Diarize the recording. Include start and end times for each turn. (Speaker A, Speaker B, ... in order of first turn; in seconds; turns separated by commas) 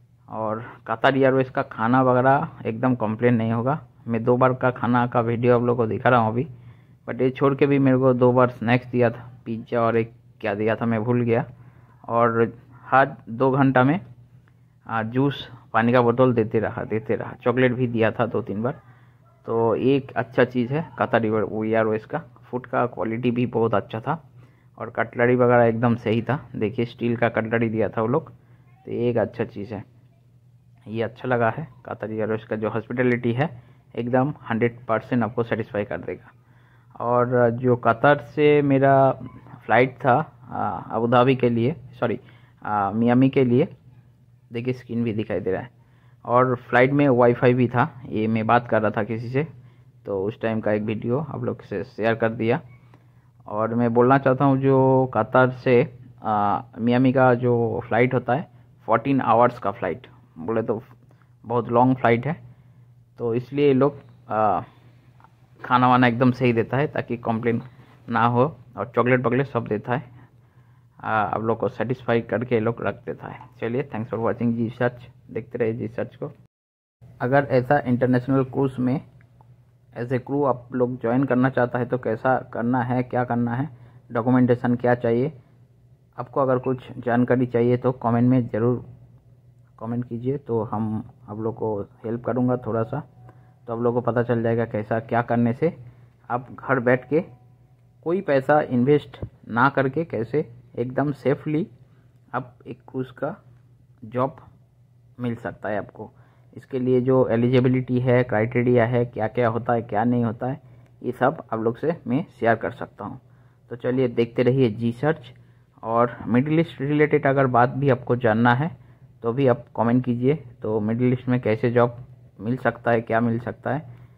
Speaker A: 0.3-6.5, Speaker A: 7.0-11.5, Speaker A: 12.1-14.0, Speaker A: 14.9-18.8, Speaker A: 19.4-24.2, Speaker A: 24.8-28.3, Speaker A: 28.8-29.8, Speaker A: 30.9-36.3, Speaker A: 37.0-43.7, Speaker A: 44.5-45.7, Speaker A: 46.2-49.5, Speaker A: 50.0-52.6, Speaker A: 53.5-60.9, Speaker A: 61.4-62.4, Speaker A: 63.2-64.7, Speaker A: 65.6-70.0, Speaker A: 71.0-76.3, Speaker A: 77.2-79.0, Speaker A: 79.9-85.3, Speaker A: 86.2-88.8, Speaker A: 89.8-93.0, Speaker A: 93.7-95.7, Speaker A: 96.3-97.2, Speaker A: 98.0-101.7, Speaker A: 102.3-103.3, Speaker A: 104.0-104.4, Speaker A: 105.2-123.8